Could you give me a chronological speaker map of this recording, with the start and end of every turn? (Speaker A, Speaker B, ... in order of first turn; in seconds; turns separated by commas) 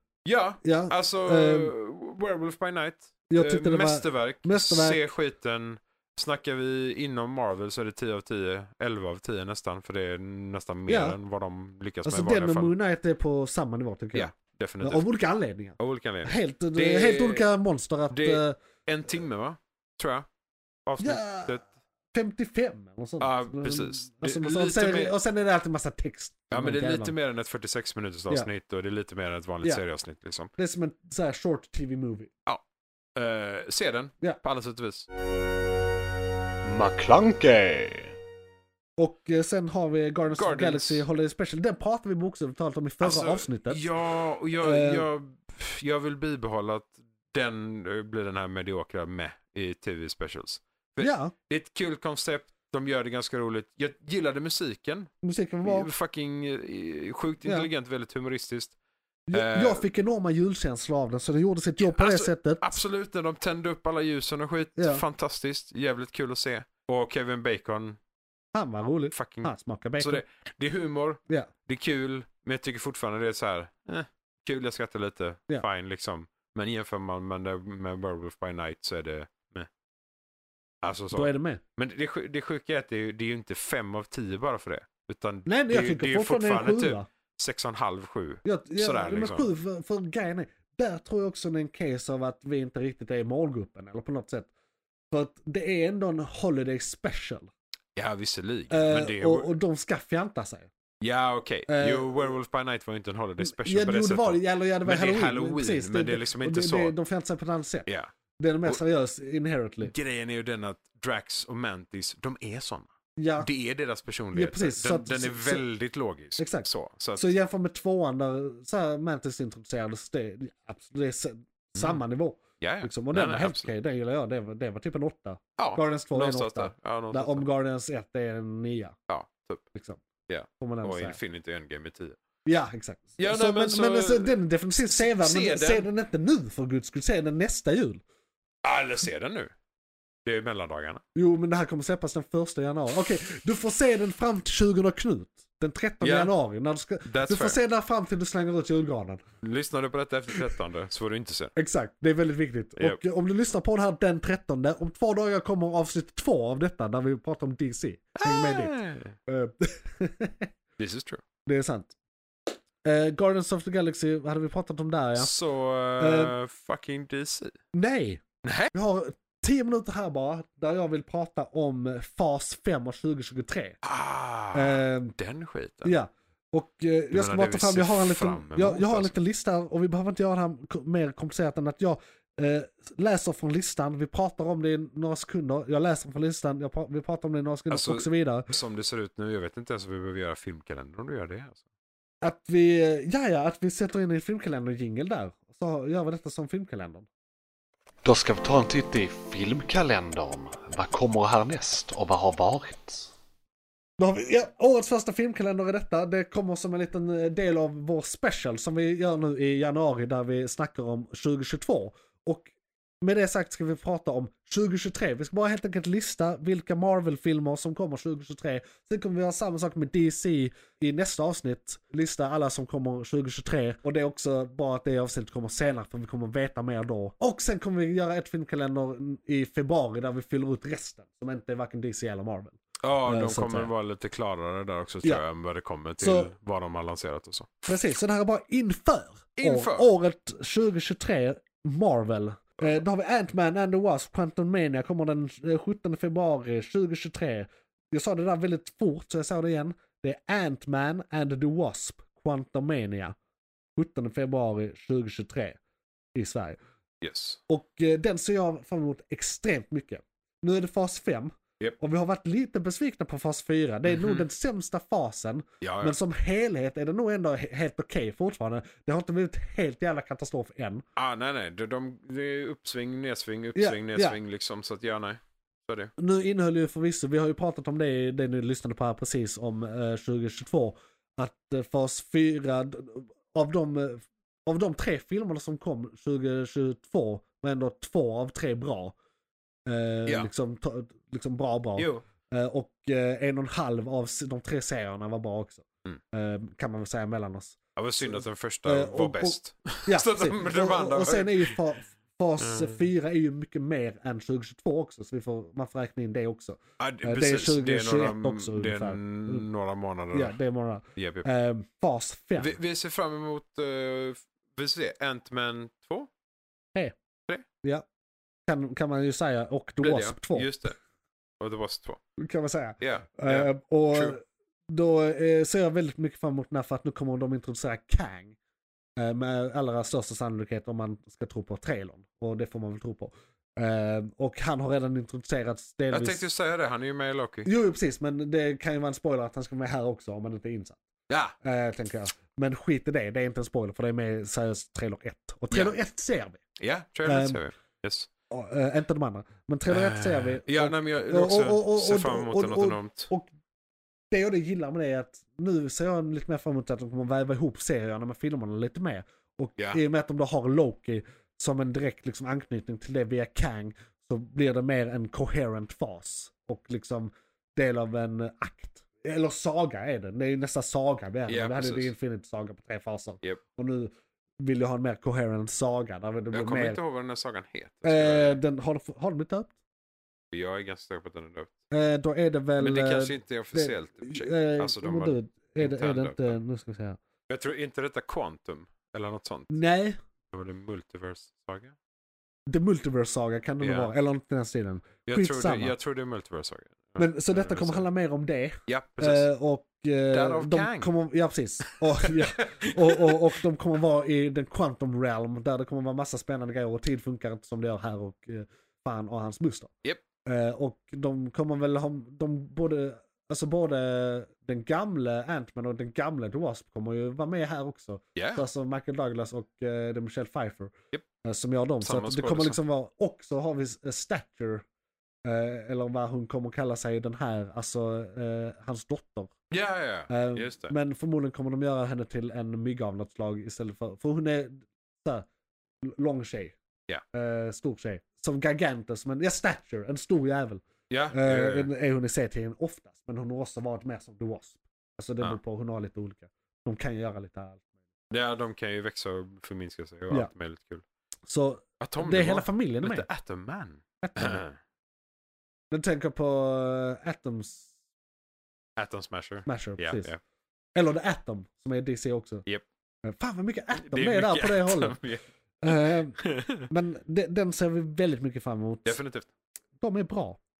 Speaker A: 0.2-12.7, Speaker B: 0.6-1.7, Speaker B: 3.3-5.1, Speaker B: 10.9-11.2, Speaker B: 12.1-18.6, Speaker A: 14.1-15.1, Speaker A: 15.8-17.5, Speaker A: 18.1-20.3, Speaker A: 20.9-21.6, Speaker B: 21.0-21.6, Speaker B: 22.1-27.1, Speaker A: 23.2-25.1, Speaker A: 26.5-30.5, Speaker B: 30.6-32.3, Speaker A: 33.1-35.1, Speaker C: 36.6-38.1, Speaker B: 39.0-43.9, Speaker A: 40.3-41.0, Speaker A: 43.0-55.1, Speaker B: 44.6-45.1, Speaker B: 51.0-51.3, Speaker B: 55.2-55.9, Speaker A: 55.6-58.8, Speaker B: 57.4-57.7, Speaker B: 59.3-62.8, Speaker A: 59.3-59.9, Speaker A: 61.8-68.0, Speaker B: 64.8-65.0, Speaker B: 68.5-70.2, Speaker A: 69.1-79.7, Speaker A: 80.8-89.5, Speaker B: 81.1-81.6, Speaker B: 85.5-87.1, Speaker B: 88.5-94.5, Speaker B: 95.1-97.5, Speaker A: 98.0-99.5, Speaker B: 98.7-100.7, Speaker A: 101.0-106.9, Speaker B: 101.7-102.3, Speaker B: 103.4-107.9, Speaker B: 108.4-109.9, Speaker A: 109.8-117.3, Speaker B: 113.2-113.5, Speaker B: 114.3-115.7, Speaker B: 116.4-129.0, Speaker A: 122.6-123.7, Speaker A: 125.6-127.5, Speaker A: 129.1-129.7, Speaker B: 129.8-130.0, Speaker A: 130.3-132.2, Speaker B: 130.6-131.2, Speaker B: 132.4-138.0, Speaker A: 133.2-135.9, Speaker A: 138.6-139.5, Speaker A: 140.2-141.0, Speaker B: 141.2-149.2, Speaker A: 146.0-146.3, Speaker A: 147.0-147.6, Speaker A: 149.4-151.5, Speaker B: 151.6-160.5, Speaker A: 158.2-159.2, Speaker A: 160.8-161.2, Speaker B: 161.5-161.9, Speaker B: 162.8-165.3, Speaker A: 165.2-167.6, Speaker B: 166.0-166.3, Speaker B: 167.7-173.8, Speaker A: 168.4-168.7, Speaker A: 173.8-176.0, Speaker B: 174.5-175.2, Speaker B: 175.8-188.5, Speaker A: 177.1-179.1, Speaker A: 187.7-191.6, Speaker B: 192.2-197.1, Speaker C: 198.0-203.1, Speaker B: 204.0-233.7, Speaker A: 232.8-237.7, Speaker B: 236.0-236.3, Speaker B: 237.7-253.2, Speaker A: 239.4-239.9, Speaker B: 253.8-255.6, Speaker B: 256.1-256.6, Speaker A: 257.0-257.4, Speaker B: 257.5-270.8, Speaker A: 263.9-264.2, Speaker A: 265.6-266.0, Speaker A: 271.0-275.9, Speaker B: 273.6-274.2, Speaker B: 276.0-288.9, Speaker B: 289.7-309.4, Speaker A: 291.8-292.0, Speaker A: 297.8-301.6, Speaker A: 302.4-302.8, Speaker A: 306.8-310.4, Speaker B: 310.1-312.6, Speaker A: 311.0-311.3, Speaker A: 312.4-316.1, Speaker B: 318.5-320.5, Speaker A: 319.8-320.8, Speaker A: 321.4-322.0, Speaker B: 322.2-328.4, Speaker A: 322.8-324.2, Speaker B: 329.0-336.3, Speaker A: 335.9-337.5, Speaker B: 337.4-340.8, Speaker A: 341.1-341.4, Speaker B: 341.4-346.4, Speaker A: 346.6-348.1, Speaker B: 347.1-347.4, Speaker B: 348.3-353.3, Speaker A: 349.7-353.1, Speaker B: 354.1-376.8, Speaker A: 371.3-371.9, Speaker A: 376.3-378.4, Speaker B: 377.8-379.5, Speaker A: 380.3-381.5, Speaker B: 381.7-387.0, Speaker A: 382.6-386.4, Speaker A: 387.3-389.6, Speaker B: 389.5-390.0, Speaker A: 390.3-391.8, Speaker B: 392.5-395.7, Speaker A: 393.6-393.9, Speaker A: 395.1-397.9, Speaker B: 397.0-409.7, Speaker A: 398.7-399.3, Speaker A: 400.1-400.9, Speaker A: 401.6-403.2, Speaker B: 410.2-424.6, Speaker A: 418.2-418.4, Speaker A: 421.8-422.6, Speaker B: 425.2-429.3, Speaker A: 429.5-430.7, Speaker B: 430.1-435.3, Speaker B: 435.8-436.6, Speaker B: 437.1-447.7, Speaker A: 440.9-441.7, Speaker A: 448.1-450.9, Speaker B: 451.3-453.1, Speaker A: 451.8-454.6, Speaker B: 454.0-454.4, Speaker B: 455.7-457.7, Speaker A: 458.8-460.2, Speaker B: 459.5-460.1, Speaker B: 460.8-462.4, Speaker B: 463.0-465.0, Speaker A: 463.7-466.7, Speaker B: 465.6-469.0, Speaker A: 468.9-469.3, Speaker B: 469.8-470.4